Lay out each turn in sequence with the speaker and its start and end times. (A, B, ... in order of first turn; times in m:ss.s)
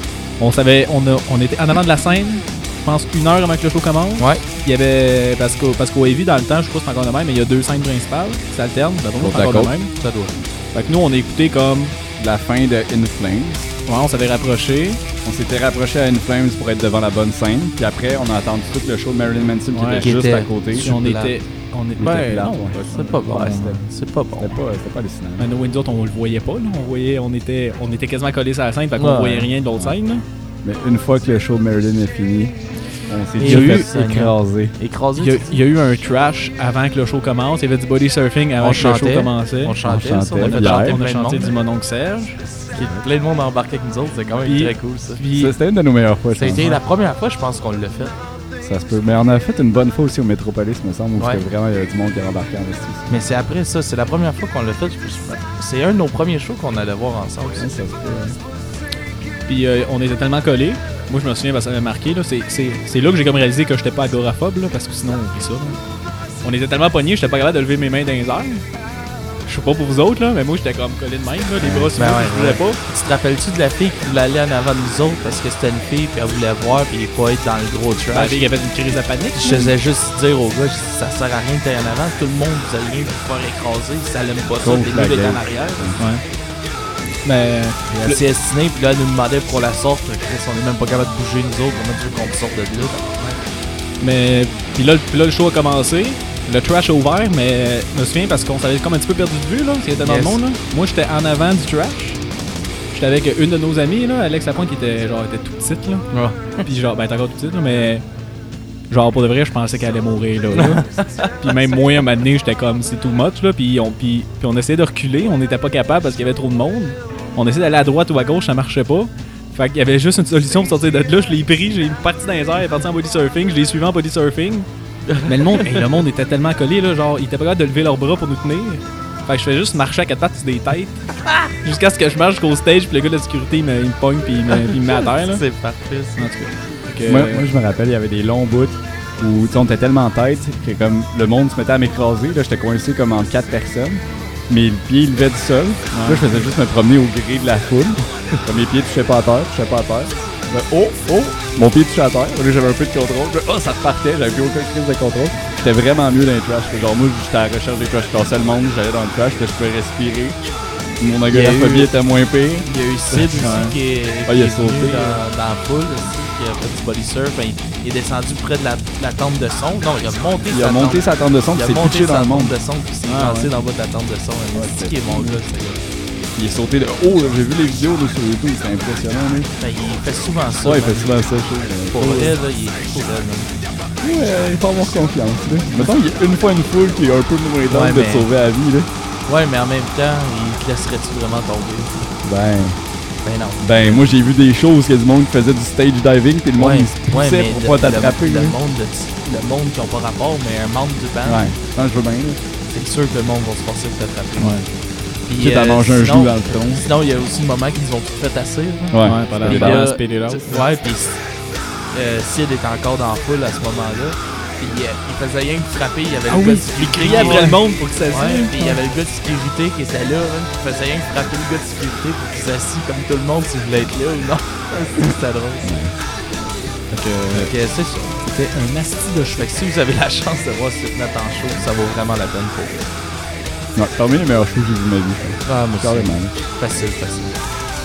0:00.4-0:09.9 A
0:04.2-0:04.4 B
0:09.2-0:09.7 C
0:10.0-0:10.3 B
0:10.7-0:12.0 A
0:12.2-0:13.7 C
0:13.8-0:15.0 A
0:15.2-0:21.0 C
0:19.7-0:20.1 A
0:20.0-0:21.4 B
0:20.7-0:22.6 A
0:22.0-0:23.8 C
0:22.9-0:24.6 B
0:23.3-0:23.7 A
0:24.4-0:25.5 C
0:25.4-0:30.2 A
0:29.0-0:29.5 B
0:30.6-0:34.7 C
0:33.4-0:35.6 B
0:33.4-0:33.9 A
0:35.2-0:39.8 A
0:38.6-0:41.6 B
0:39.8-0:41.0 C
0:40.4-0:42.4 A
0:42.7-0:43.1 C
0:42.7-0:45.2 B
0:44.4-0:45.6 A
0:45.3-0:46.8 C
0:46.3-0:48.1 B
0:48.6-0:53.2 C
0:51.2-0:51.4 B
0:53.1-0:57.7 B
0:57.6-0:58.4 C
0:59.4-1:05.8 A
1:06.4-1:08.6 A
1:09.4-1:12.8 A
1:11.6-1:11.9 C
1:11.9-1:18.4 B
1:18.1-1:19.7 A
1:19.4-1:26.0 B
1:24.6-1:26.0 C
1:26.0-1:26.2 A
1:27.2-1:27.9 A
1:27.9-1:28.2 C
1:28.0-1:33.4 B
1:34.0-1:42.2 A
1:40.0-1:40.4 B
1:42.9-1:48.0 A
1:46.1-1:46.6 B
1:48.9-1:50.8 A
1:50.5-1:51.3 B
1:51.4-2:04.7 A
2:05.1-2:05.8 B
2:05.2-2:11.0 A
2:11.6-2:15.4 A
2:15.0-2:16.3 B
2:16.2-2:17.5 A
2:17.0-2:40.5 C
2:25.9-2:26.4 A
2:41.0-2:43.4 C
2:41.3-2:41.9 B
2:42.6-2:55.8 B
2:43.4-2:43.8 A
2:44.2-2:45.2 C
2:50.5-2:52.6 C
2:53.0-2:53.5 A
2:54.5-2:55.4 C
2:56.4-2:59.5 C
2:59.6-3:01.2 B
3:00.6-3:02.4 C
3:01.9-3:03.5 B
3:04.0-3:08.9 C
3:07.7-3:08.3 B
3:09.2-3:12.1 B
3:12.2-3:12.8 C
3:13.2-3:14.1 B
3:13.6-3:18.6 C
3:16.6-3:21.6 B
3:21.2-3:22.4 C
3:22.7-3:24.7 B
3:24.4-3:24.6 A
3:25.2-3:31.2 B
3:25.4-3:26.8 C
3:28.9-3:29.9 C
3:29.0-3:30.6 A
3:31.9-3:45.7 B
3:36.3-3:38.8 A
3:45.6-3:45.9 C
3:46.9-3:47.5 A
3:47.3-3:48.2 B
3:48.2-3:49.5 A
3:49.4-3:52.9 B
3:53.7-3:56.3 C
3:55.4-3:57.4 B